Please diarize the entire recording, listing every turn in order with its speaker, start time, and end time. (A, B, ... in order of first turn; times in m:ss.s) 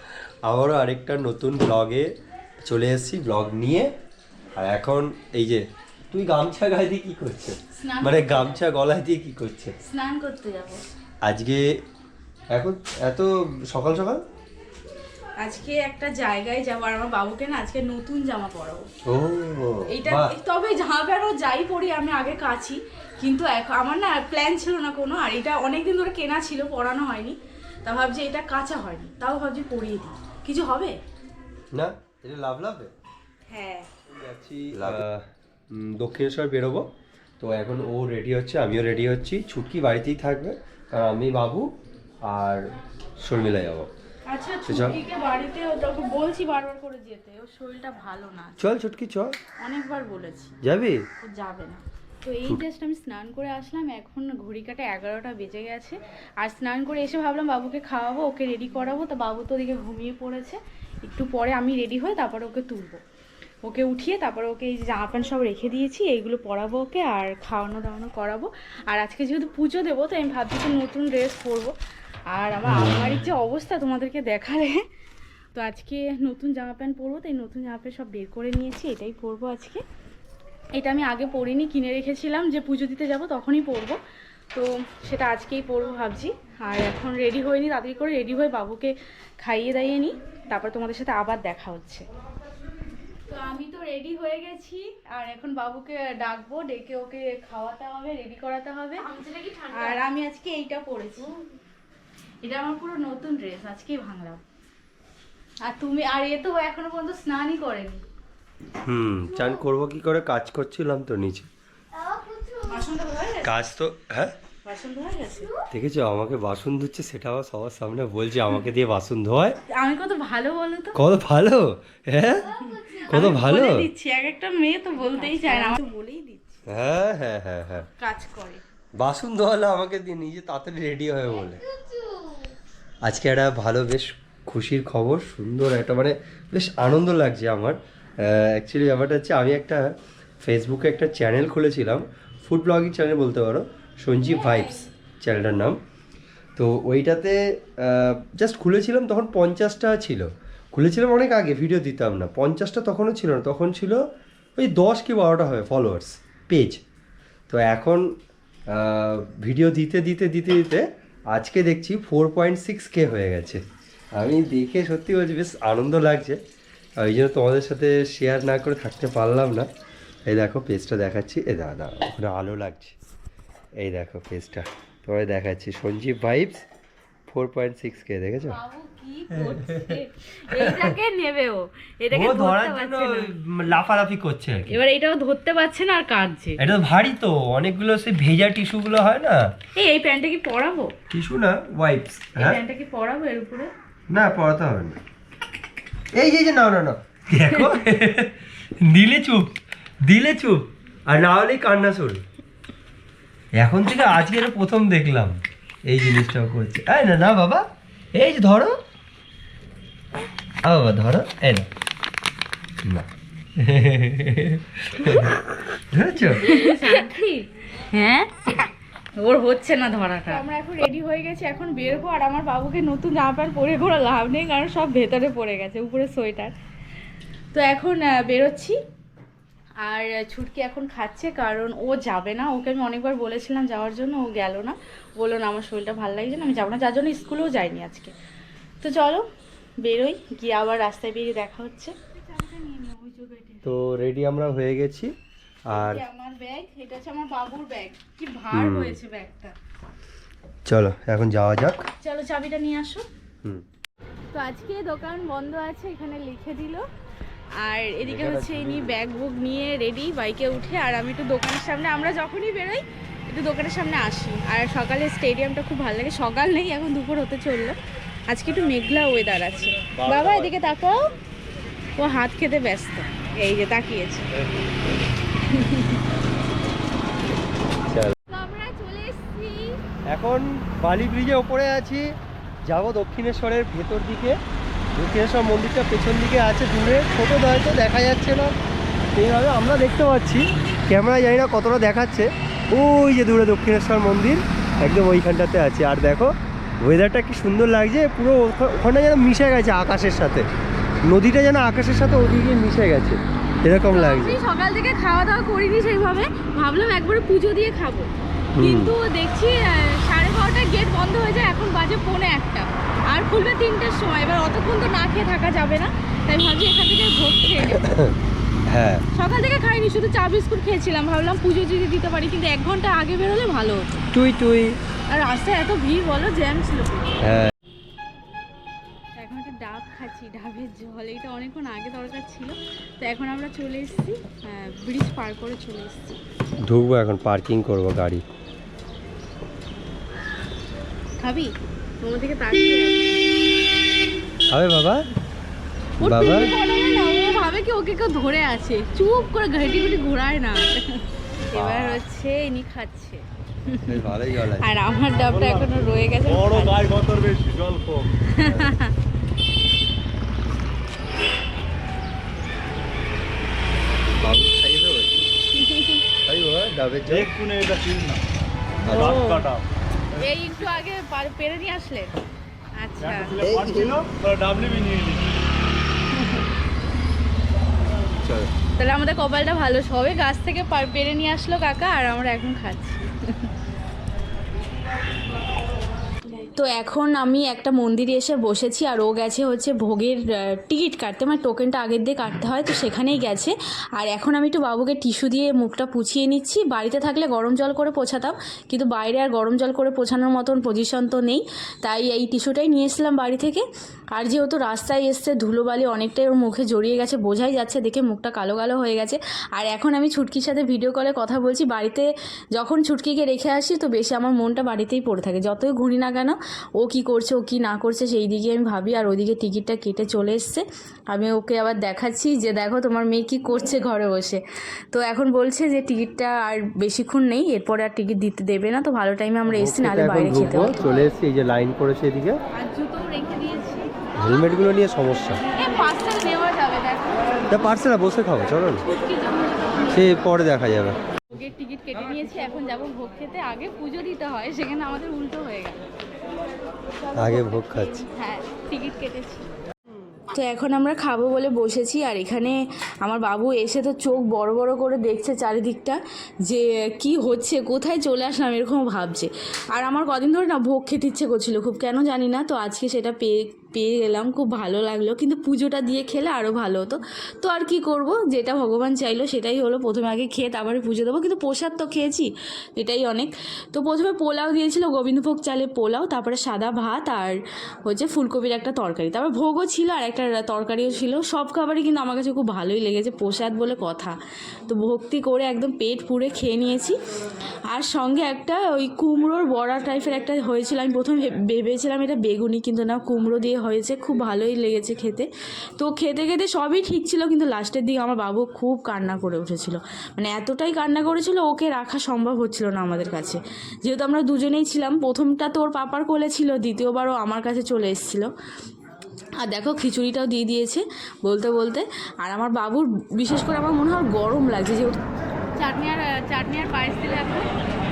0:00.4-0:03.9 A
0:04.6-0:09.7 A
0:07.8-0:08.6 B
0:09.8-0:10.8 B
0:11.2-0:11.7 A
0:12.5-0:14.2 A
0:15.4-0:18.8 B
0:19.0-0:20.3 A
0:19.9-0:31.0 B
0:31.7-0:32.9 A
0:33.5-0:33.9 B
0:34.0-0:36.9 A
0:37.4-0:41.7 A
0:42.2-0:42.6 A
0:43.2-0:43.9 A
0:44.3-0:48.6 B
0:44.7-0:45.0 A
0:48.6-0:49.3 A
0:49.6-0:50.6 B
0:50.6-0:51.0 A
0:51.2-1:03.0 B
1:03.6-1:11.7 B
1:12.3-1:14.8 B
1:15.5-1:19.8 B
1:20.8-1:24.0 B
1:24.5-1:32.0 B
1:33.3-1:41.3 B
1:42.4-1:44.4 B
1:45.6-1:48.0 B
1:48.8-1:51.5 A
1:52.5-1:53.5 B
1:53.4-1:54.3 A
1:54.6-1:55.5 B
1:55.7-1:59.6 A
1:59.7-2:01.0 B
2:00.9-2:03.9 A
2:02.5-2:06.6 B
2:06.7-2:07.9 A
2:08.0-2:08.6 B
2:09.0-2:11.6 A
2:13.0-2:19.8 A
2:20.4-2:25.8 A
2:24.2-2:24.8 B
2:26.6-2:34.0 A
2:34.6-2:36.8 A
2:37.5-2:38.1 A
2:38.7-2:43.6 A
2:44.1-2:46.4 A
2:47.0-2:49.7 A
2:50.3-2:52.9 A
2:53.8-2:56.6 A
2:57.3-2:58.6 A
2:58.5-3:03.3 B
2:59.3-3:00.0 A
3:00.5-3:00.8 A
3:02.1-3:04.8 A
3:04.7-3:06.6 B
3:06.6-3:09.4 A
3:09.7-3:10.9 B
3:11.1-3:12.6 A
3:12.4-3:13.7 B
3:14.1-3:15.0 A
3:16.1-3:22.2 A
3:23.5-3:28.8 A
3:30.6-3:31.7 A
3:32.8-3:36.4 A
3:36.4-3:38.7 B
3:39.2-3:46.5 B
3:47.5-3:48.8 B
3:49.8-3:58.1 B
3:58.8-3:59.2 B
3:59.8-4:03.6 B
4:03.6-4:05.1 A
4:05.7-4:06.0 A
4:05.7-4:09.5 B
4:08.5-4:09.0 A
4:10.6-4:11.8 A
4:12.0-4:13.1 B
4:14.3-4:16.8 B
4:17.6-4:27.8 B
4:18.0-4:19.0 A
4:28.3-4:31.1 B
4:30.0-4:30.3 A
4:32.0-4:34.3 B
4:35.5-4:36.0 B
4:37.8-4:38.1 A
4:38.3-4:39.8 B
4:40.1-4:42.1 A
4:42.6-4:44.4 A
4:44.9-4:48.5 A
4:49.1-5:00.5 A
5:01.0-5:04.4 A
5:03.8-5:17.9 B
5:08.6-5:08.9 A
5:17.7-5:18.1 A
5:18.7-5:19.0 A
5:19.1-5:24.1 B
5:24.1-5:24.8 A
5:25.1-5:27.3 B
5:27.2-5:27.5 A
5:29.2-5:36.2 B
5:36.6-5:38.2 A
5:41.2-5:43.3 B
5:44.5-5:45.0 A
5:46.0-5:56.9 B
5:46.0-5:46.5 A
5:51.5-5:52.0 A
5:53.9-5:54.7 A
5:55.3-5:55.7 C
5:56.2-5:58.1 C
5:58.2-5:58.9 B
5:58.3-5:58.8 A
6:04.2-6:05.3 A
6:05.5-6:06.0 B
6:06.2-6:07.3 A
6:07.0-6:08.2 C
6:08.8-6:09.2 A
6:08.8-6:09.5 B
6:08.8-6:09.6 C
6:10.1-6:12.2 B
6:12.8-6:13.4 B
6:13.0-6:15.2 C
6:16.1-6:16.4 B
6:18.2-6:18.5 A
6:18.8-6:23.5 B
6:26.3-7:04.4 B
7:04.9-7:10.9 B
7:09.5-7:12.4 A
7:12.5-7:13.9 B
7:14.2-7:15.4 A
7:15.5-7:17.6 B
7:17.5-7:18.8 A
7:18.8-7:20.2 B
7:19.9-7:21.0 A
7:21.3-7:25.8 B
7:27.1-7:28.0 A
7:27.3-7:29.5 B
7:30.3-8:04.2 B
8:04.7-8:07.0 B
8:07.7-8:28.3 B
8:29.4-8:35.0 B
8:35.6-8:37.5 B